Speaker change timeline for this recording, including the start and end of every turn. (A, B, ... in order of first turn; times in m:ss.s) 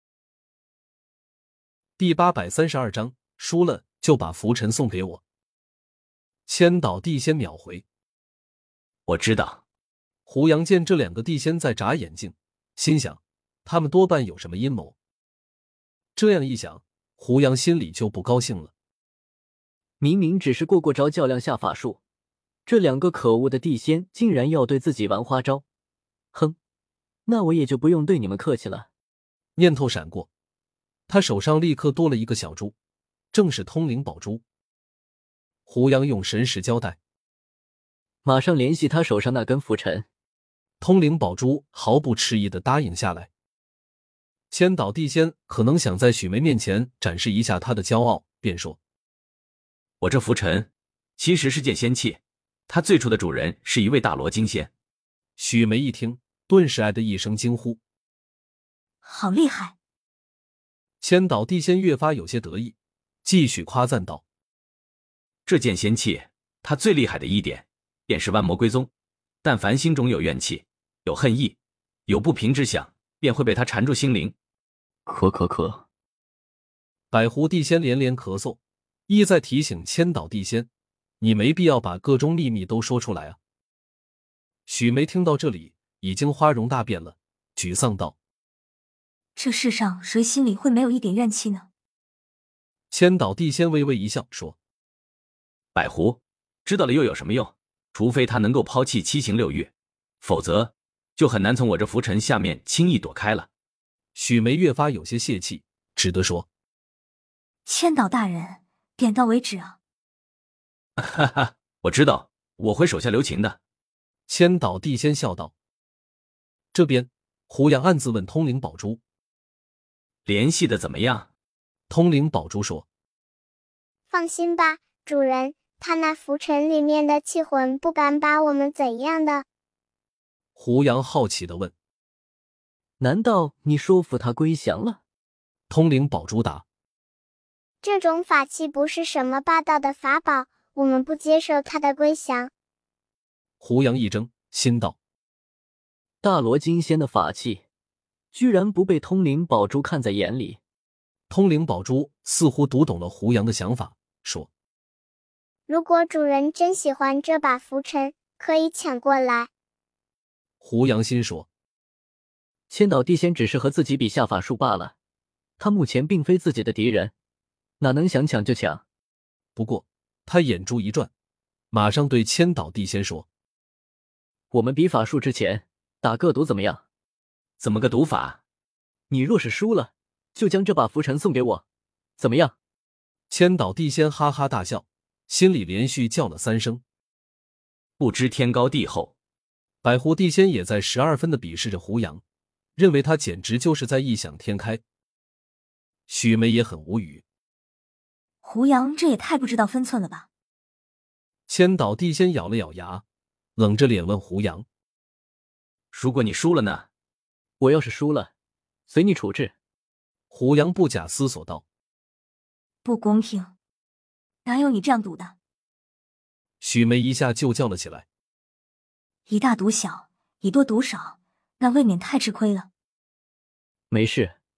0:02.0-0:05.2 A
0:06.5-0:07.8 A
0:09.1-0:09.6 B
0:10.3-0:15.0 A
0:16.2-0:18.7 A
0:20.0-0:22.0 C
0:22.6-0:25.6 C
0:27.3-0:28.9 C
0:29.6-0:30.3 A
0:31.1-0:32.7 A
0:33.3-0:34.4 A
0:35.6-0:37.0 A
0:38.2-0:40.0 C
0:40.8-0:43.3 A
0:44.5-0:48.8 A
0:50.0-0:54.7 B
0:55.4-0:57.8 A
0:59.0-0:59.7 D
1:01.0-1:04.2 A
1:05.4-1:08.9 B
1:09.4-1:11.6 B
1:12.1-1:14.3 B
1:15.0-1:15.8 C
1:17.1-1:20.7 A
1:21.2-1:23.4 A
1:24.7-1:28.2 A
1:29.4-1:31.7 D
1:32.9-1:34.6 A
1:35.7-1:39.7 B
1:40.2-1:43.5 B
1:44.1-1:46.5 A
1:47.7-1:49.8 D
1:51.0-1:53.6 B
1:54.3-1:55.5 A
1:56.7-1:59.0 A
2:00.2-2:01.3 B
2:01.9-2:02.8 A
2:04.1-2:09.4 E
2:10.6-2:11.7 A
2:13.0-2:15.0 C
2:15.7-2:16.6 A
2:17.8-2:22.5 E
2:23.6-2:25.0 A
2:26.2-2:27.6 C
2:28.3-2:30.6 C
2:31.3-2:34.5 A
2:35.7-2:39.5 E
2:40.6-2:41.5 A
2:42.7-2:44.9 C
2:45.6-2:47.1 C
2:47.8-2:48.8 C
2:49.6-2:51.1 A
2:51.7-2:53.3 A
2:54.5-2:56.8 C
2:57.6-2:58.4 B
2:59.1-3:01.6 C
3:02.2-3:02.5 C
3:03.3-3:06.8 A
3:08.0-3:09.1 B
3:09.8-3:12.2 A
3:12.8-3:14.8 A
3:16.1-3:17.2 A
3:18.4-3:20.2 D
3:21.5-3:23.0 A
3:23.6-3:24.6 A
3:25.9-3:26.8 B
3:27.6-3:28.3 C
3:28.9-3:29.5 C
3:30.3-3:31.6 A
3:32.8-3:33.5 D
3:34.4-3:35.3 D
3:36.6-3:38.0 A
3:39.3-3:42.7 D
3:43.9-3:44.3 C